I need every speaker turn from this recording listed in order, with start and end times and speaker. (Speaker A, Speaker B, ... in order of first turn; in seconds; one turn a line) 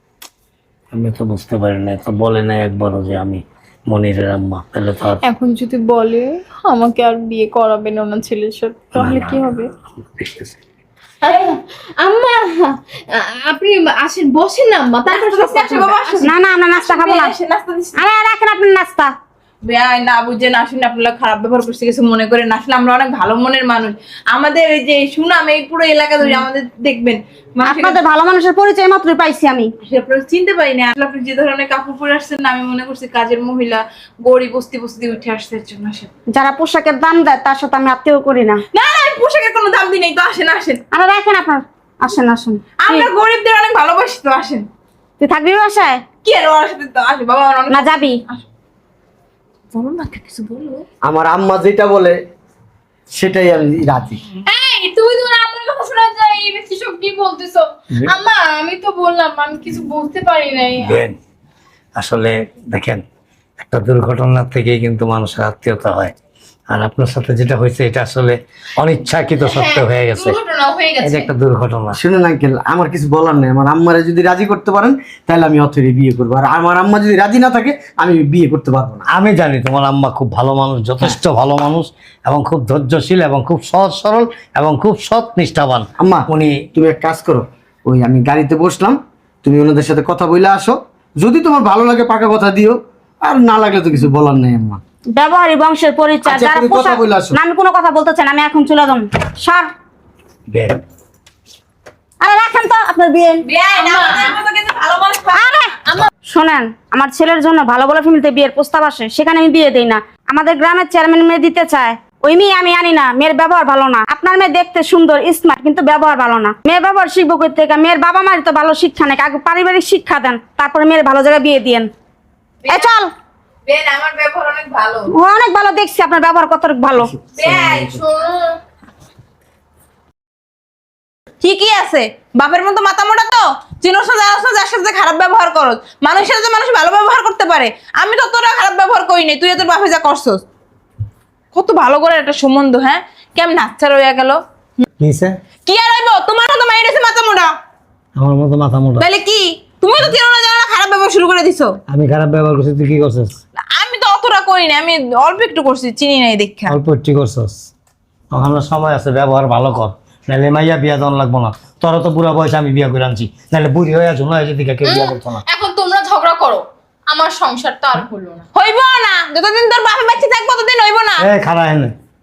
Speaker A: 0.9-5.2
Speaker B: 5.2-9.7
Speaker A: 8.9-9.6
Speaker A: 10.2-10.5
Speaker B: 11.2-16.2
Speaker C: 15.1-18.0
Speaker D: 16.2-17.3
Speaker D: 17.9-19.1
Speaker C: 19.6-28.0
Speaker D: 27.6-29.7
Speaker C: 29.8-36.1
Speaker D: 36.3-38.6
Speaker C: 38.7-40.8
Speaker D: 40.9-43.1
Speaker C: 42.8-44.7
Speaker D: 45.2-46.0
Speaker C: 46.2-48.4
Speaker D: 47.7-48.2
Speaker C: 49.7-50.8
Speaker E: 51.0-52.2
Speaker E: 53.1-54.2
Speaker B: 54.5-61.0
Speaker A: 60.8-61.2
Speaker A: 62.0-63.0
Speaker A: 63.6-66.1
Speaker A: 66.7-70.3
Speaker B: 69.3-71.3
Speaker A: 71.0-72.0
Speaker E: 71.9-79.0
Speaker A: 79.1-86.7
Speaker E: 86.0-94.8
Speaker D: 95.2-99.7
Speaker E: 96.3-97.4
Speaker A: 100.5-100.8
Speaker D: 102.2-103.5
Speaker C: 103.4-105.7
Speaker D: 105.3-105.7
Speaker D: 106.3-121.9
Speaker D: 122.7-123.1
Speaker C: 123.7-125.1
Speaker D: 125.1-127.1
Speaker C: 127.3-128.6
Speaker E: 127.4-127.9
Speaker C: 131.4-140.4
Speaker C: 141.5-144.4
Speaker A: 145.0-145.4
Speaker C: 145.7-147.5
Speaker A: 148.2-149.0
Speaker C: 149.0-151.8
Speaker A: 151.9-153.3
Speaker C: 153.7-156.8
Speaker A: 156.7-157.6
Speaker A: 158.3-165.4
Speaker B: 164.8-168.4
Speaker C: 168.5-171.3
Speaker A: 171.2-171.9